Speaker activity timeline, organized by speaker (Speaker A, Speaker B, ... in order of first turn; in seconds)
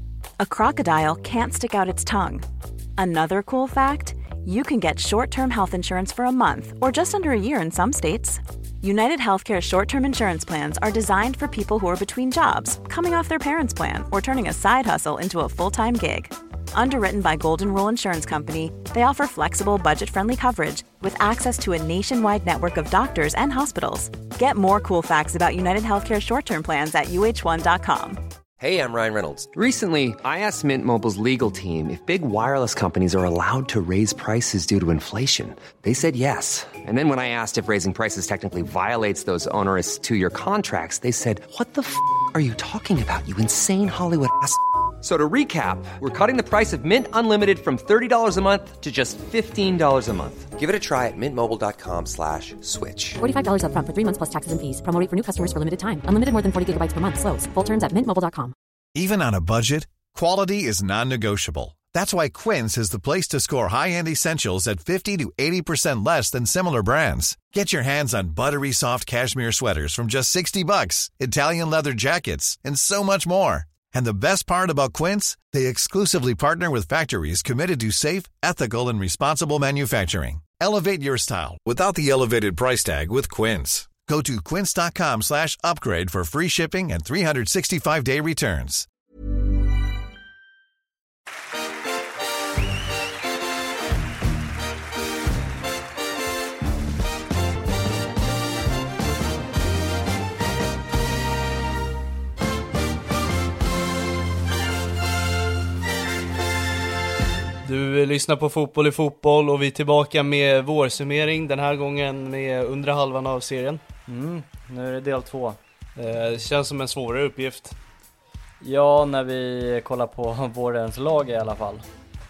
Speaker A: 0.4-2.5, 3.0-28.2
Speaker B: 28.6-53.2
Speaker C: 53.2-58.5
Speaker D: 59.0-88.9
Speaker E: 107.6-113.8, 116.0-117.8
Speaker F: 114.1-115.6, 118.6-121.8